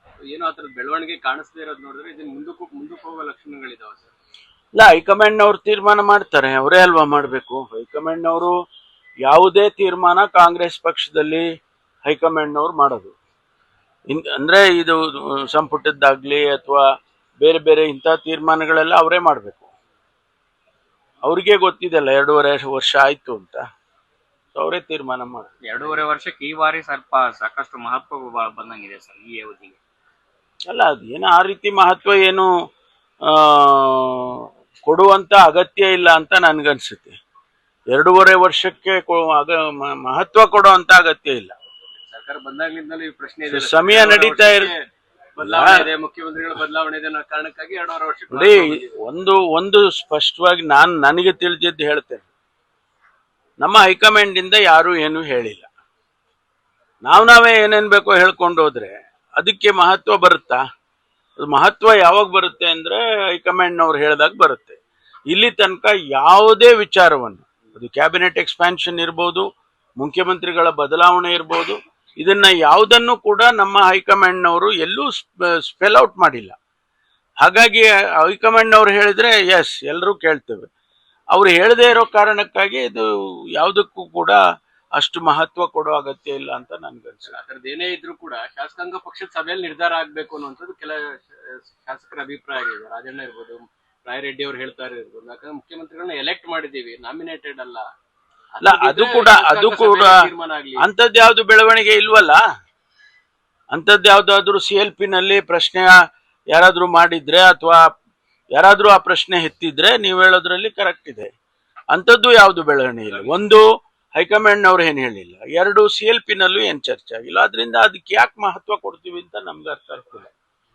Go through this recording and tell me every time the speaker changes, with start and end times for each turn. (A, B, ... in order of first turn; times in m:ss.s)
0:00.3-0:04.1 A
0:04.8-0:08.5 B
0:09.2-0:11.4 B
0:12.0-0:13.1 B
0:14.1-0:16.8 B
0:17.4-0:19.7 B
0:21.2-0:23.6 B
0:24.5-0:26.0 B
0:25.6-0:29.8 C
0:30.7-0:32.5 B
0:33.3-0:37.1 B
0:37.9-0:41.5 B
0:42.0-0:44.8 A
0:43.5-0:44.7 B
0:45.4-0:48.9 A
0:45.4-0:45.9 B
0:48.3-0:52.3 B
0:53.6-0:55.7 B
0:57.0-1:00.6 B
1:01.4-1:04.8 B
1:05.3-1:09.4 B
1:10.0-1:16.5 B
1:17.4-1:20.7 B
1:21.3-1:24.4 B
1:25.0-1:27.4 B
1:27.3-1:37.8 A
1:38.5-1:40.8 A
1:38.6-1:40.1 B
1:40.8-1:42.4 B
1:43.7-1:45.9 B
1:46.5-1:47.8 B
1:48.5-1:51.3 B
1:51.9-1:53.6 B
1:54.2-2:00.3 B